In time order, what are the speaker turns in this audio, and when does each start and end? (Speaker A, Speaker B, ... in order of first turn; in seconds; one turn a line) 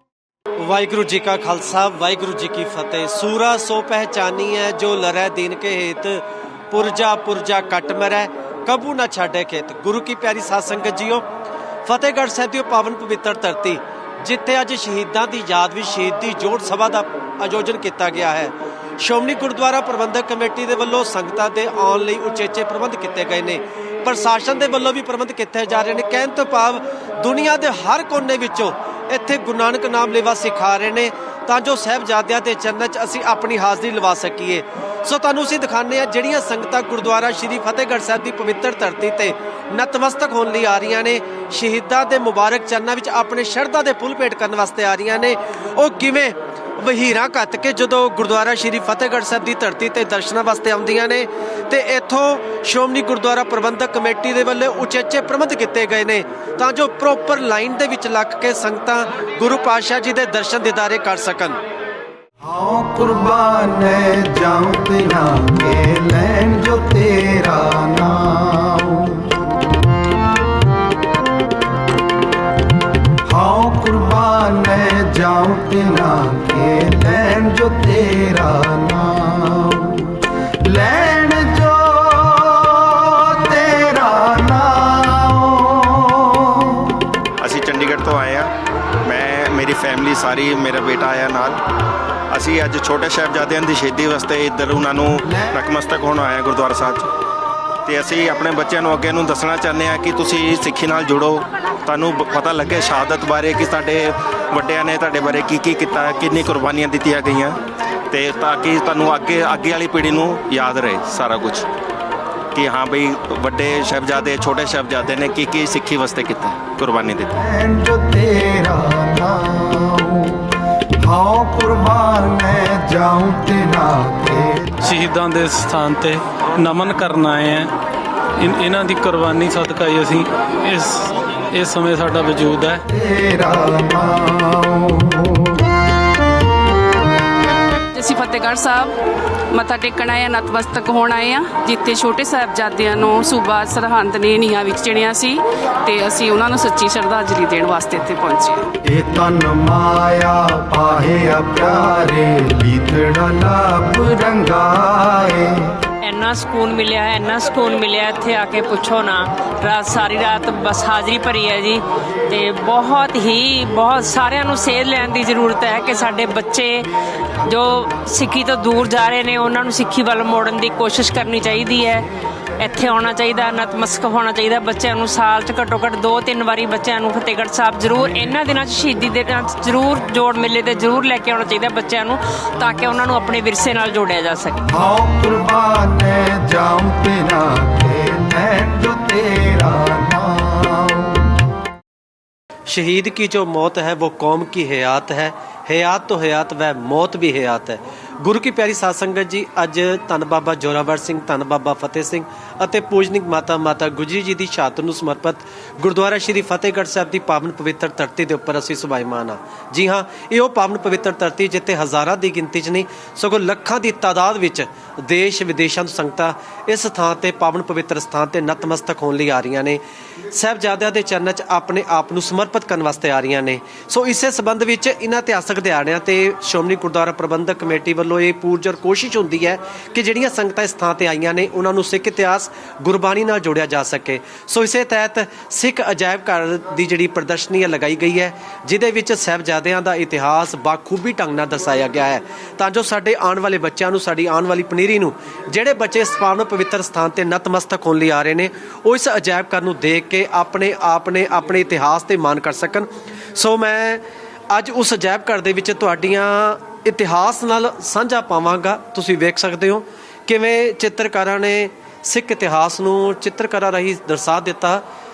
Speaker A: 0.6-11.2
Speaker A: 11.8-61.6
Speaker B: 62.4-69.4
Speaker B: 73.2-87.0
Speaker C: 87.4-88.5
Speaker C: 89.0-91.6
Speaker C: 92.3-97.1
Speaker B: 95.2-95.6
Speaker C: 97.9-107.6
Speaker C: 108.1-111.7
Speaker C: 112.5-117.3
Speaker B: 117.4-124.8
Speaker D: 124.8-127.7
Speaker D: 128.4-132.8
Speaker B: 132.9-135.6
Speaker E: 137.9-139.0
Speaker E: 139.5-148.7
Speaker B: 148.8-155.7
Speaker F: 156.0-166.9
Speaker F: 167.4-172.1
Speaker F: 172.6-184.6
Speaker B: 184.7-191.3
Speaker A: 192.7-264.8